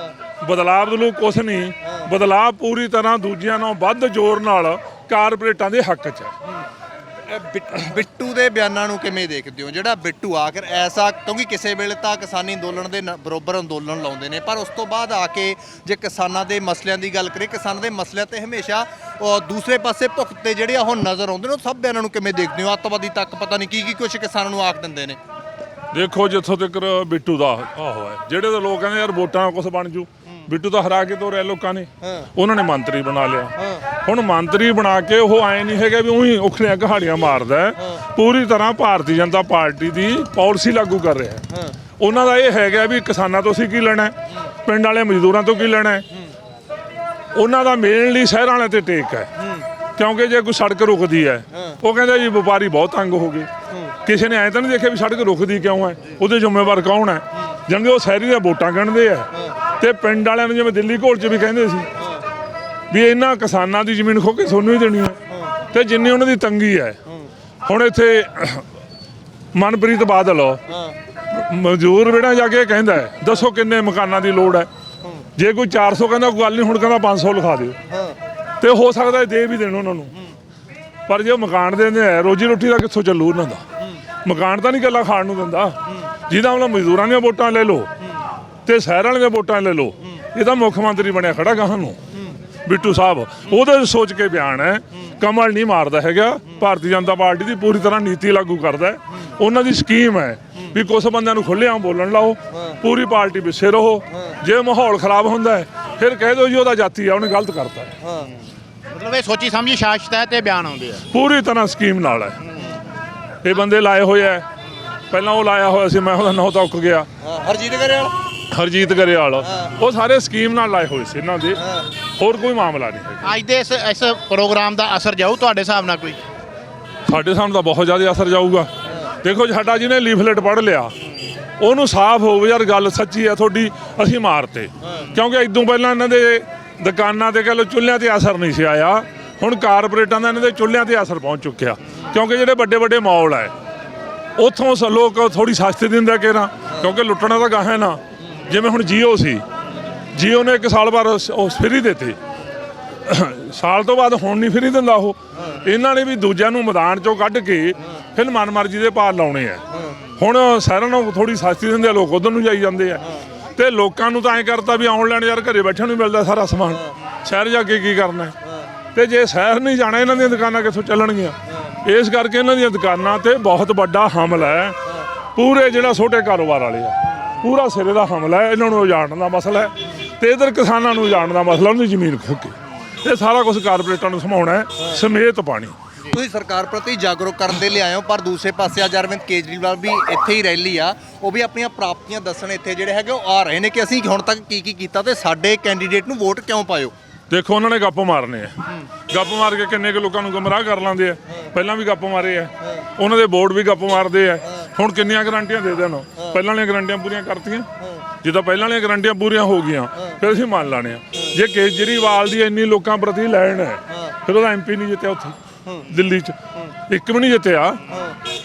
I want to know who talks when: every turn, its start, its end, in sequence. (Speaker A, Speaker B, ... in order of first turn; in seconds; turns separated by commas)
Speaker A: 0.4-6.3, Speaker B: 7.2-25.2, Speaker A: 25.9-41.5, Speaker A: 42.0-46.0, Speaker A: 47.3-49.3, Speaker A: 50.0-53.5, Speaker A: 54.0-61.9, Speaker A: 62.9-65.2, Speaker A: 65.7-67.0, Speaker A: 67.6-68.7, Speaker A: 69.5-70.7, Speaker A: 71.3-74.7, Speaker A: 75.3-77.8, Speaker A: 78.6-80.1, Speaker A: 81.1-83.6, Speaker A: 84.2-87.9, Speaker A: 88.6-92.0, Speaker A: 92.6-107.9, Speaker C: 108.9-111.0, Speaker A: 111.1-112.4, Speaker A: 113.4-114.5, Speaker A: 115.1-117.1, Speaker B: 117.2-118.1, Speaker A: 118.5-121.6, Speaker A: 122.2-123.3, Speaker C: 123.2-126.2, Speaker A: 127.0-130.9, Speaker A: 131.6-143.5, Speaker A: 144.3-149.4, Speaker A: 150.1-152.2, Speaker A: 153.0-159.6, Speaker A: 160.2-168.3, Speaker A: 168.9-174.8, Speaker A: 175.3-185.8, Speaker B: 186.1-196.9, Speaker A: 197.3-198.5, Speaker A: 199.1-207.7, Speaker A: 208.2-217.8